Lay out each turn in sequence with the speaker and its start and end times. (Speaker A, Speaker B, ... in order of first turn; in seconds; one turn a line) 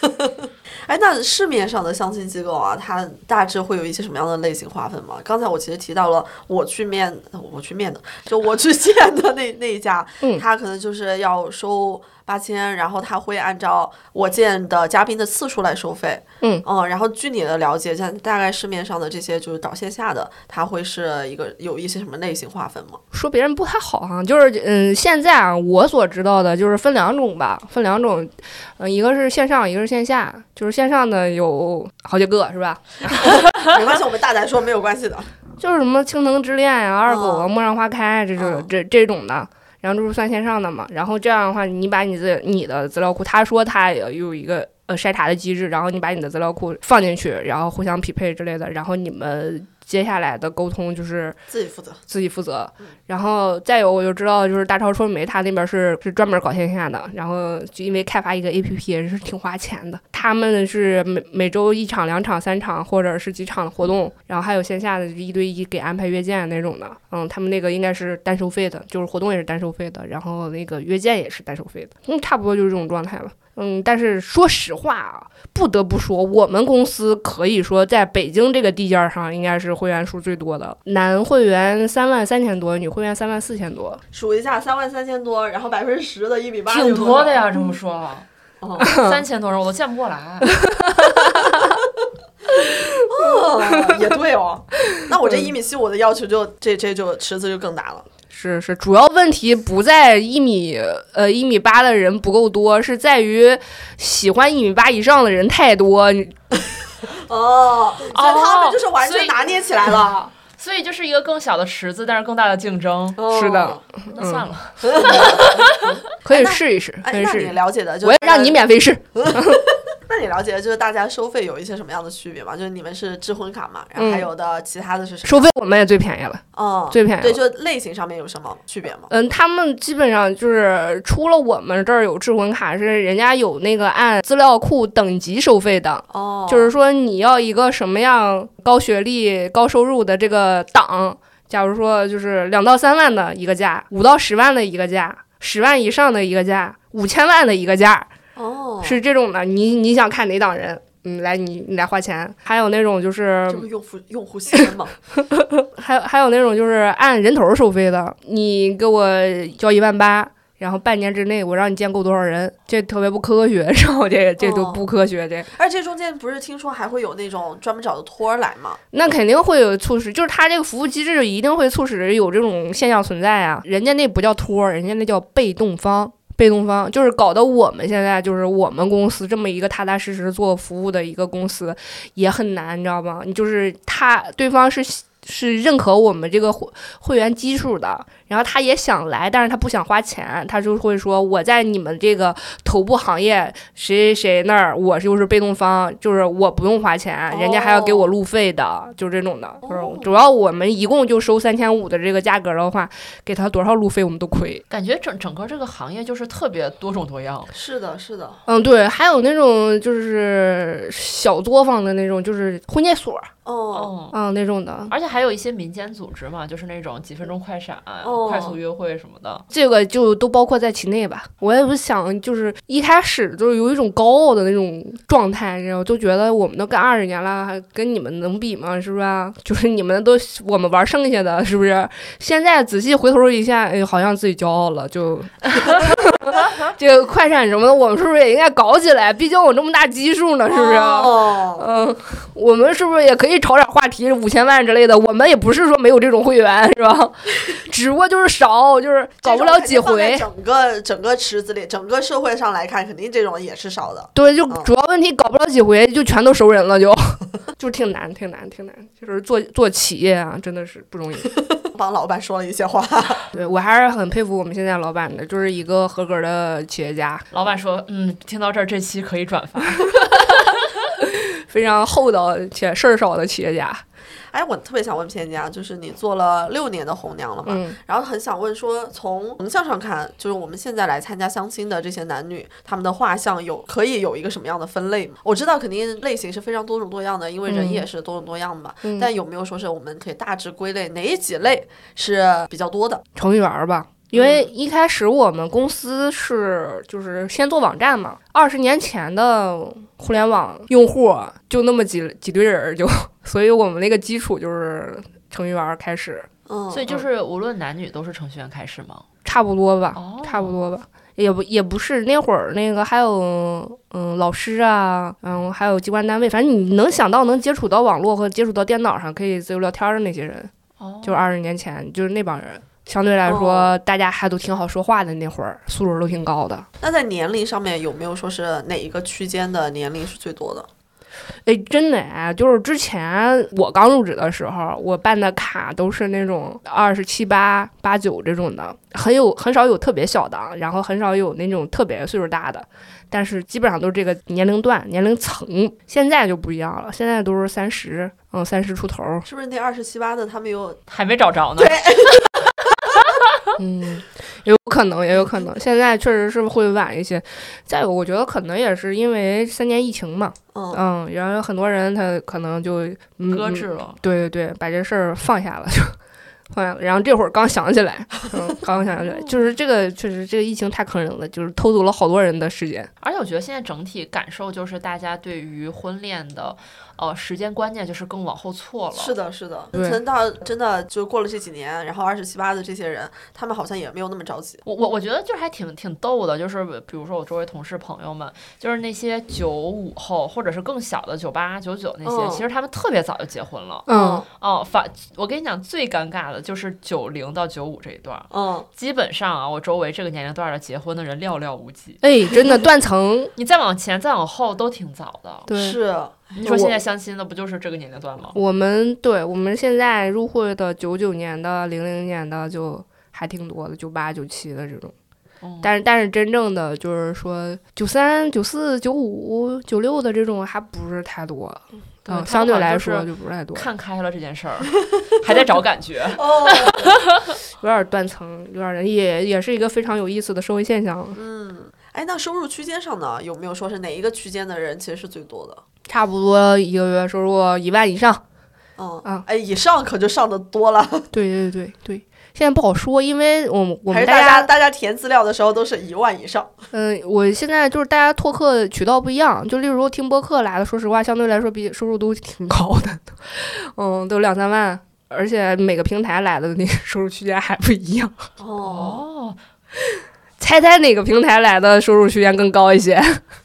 Speaker A: 0.8-23.0
Speaker B: 23.1-33.5
Speaker A: 33.5-35.3
Speaker B: 35.6-51.4
Speaker A: 37.0-37.5
Speaker A: 38.4-38.7
Speaker A: 51.5-52.0
Speaker B: 52.1-84.0
Speaker A: 84.1-87.5
Speaker C: 86.7-88.2
Speaker A: 88.6-89.0
Speaker B: 88.8-89.2
Speaker C: 88.8-90.7
Speaker B: 90.6-91.6
Speaker B: 92.9-94.0
Speaker A: 93.1-98.0
Speaker B: 98.3-106.3
Speaker A: 107.0-110.3
Speaker C: 108.1-109.4
Speaker C: 110.5-113.2
Speaker A: 113.2-113.8
Speaker B: 113.3-114.5
Speaker C: 114.1-115.8
Speaker A: 114.8-118.6
Speaker B: 116.2-119.6
Speaker A: 119.1-125.5
Speaker B: 124.0-124.3
Speaker B: 125.2-127.4
Speaker A: 126.5-129.1
Speaker B: 129.1-148.1
Speaker A: 136.1-136.7
Speaker A: 148.3-149.0
Speaker B: 148.8-153.7
Speaker A: 153.5-154.9
Speaker B: 155.2-165.5
Speaker A: 164.4-164.8
Speaker A: 165.5-168.8
Speaker B: 168.9-204.6
Speaker A: 197.3-198.1
Speaker A: 199.6-200.1
Speaker C: 204.7-207.5
Speaker A: 207.5-208.4
Speaker B: 208.4-213.3
Speaker A: 213.4-213.9
Speaker C: 213.7-214.2
Speaker B: 214.1-214.9
Speaker C: 214.9-219.4
Speaker A: 218.0-218.6
Speaker B: 219.5-250.2
Speaker A: 240.5-241.7
Speaker A: 249.2-254.7
Speaker B: 254.2-261.3
Speaker A: 261.5-263.4
Speaker B: 263.3-267.2
Speaker C: 267.3-270.1
Speaker B: 271.0-273.8
Speaker A: 274.3-293.0
Speaker B: 277.4-277.8
Speaker B: 287.5-287.8
Speaker B: 293.1-306.3
Speaker A: 294.1-294.5
Speaker A: 306.5-307.0
Speaker C: 306.7-309.0
Speaker B: 309.2-320.5
Speaker C: 309.9-310.6
Speaker C: 320.8-321.2
Speaker B: 321.0-326.6
Speaker A: 323.2-323.7
Speaker A: 326.8-330.7
Speaker B: 331.4-349.2
Speaker A: 349.2-350.8
Speaker C: 350.9-352.2
Speaker A: 351.6-352.7
Speaker C: 353.0-353.3
Speaker B: 353.6-366.0
Speaker A: 360.5-360.8
Speaker C: 363.3-364.0
Speaker B: 366.5-372.9
Speaker C: 368.8-369.4
Speaker C: 373.0-379.1
Speaker A: 378.9-384.6
Speaker B: 379.7-380.0
Speaker C: 384.6-402.0
Speaker A: 392.0-392.4
Speaker B: 393.9-394.2
Speaker A: 393.9-394.3
Speaker A: 398.3-398.7
Speaker B: 402.0-403.3
Speaker C: 403.4-405.5
Speaker B: 405.5-405.8
Speaker A: 405.5-406.3
Speaker C: 406.3-408.4
Speaker B: 406.4-406.7
Speaker B: 408.3-414.9
Speaker C: 415.4-415.7
Speaker B: 415.6-423.6
Speaker C: 422.1-427.3
Speaker A: 426.1-427.0
Speaker B: 427.6-431.2
Speaker A: 431.1-435.6
Speaker B: 435.9-438.2
Speaker A: 438.8-441.1
Speaker B: 441.1-444.5
Speaker A: 443.9-446.5
Speaker B: 446.7-458.3
Speaker A: 458.4-459.0
Speaker C: 458.6-459.4
Speaker B: 460.4-463.2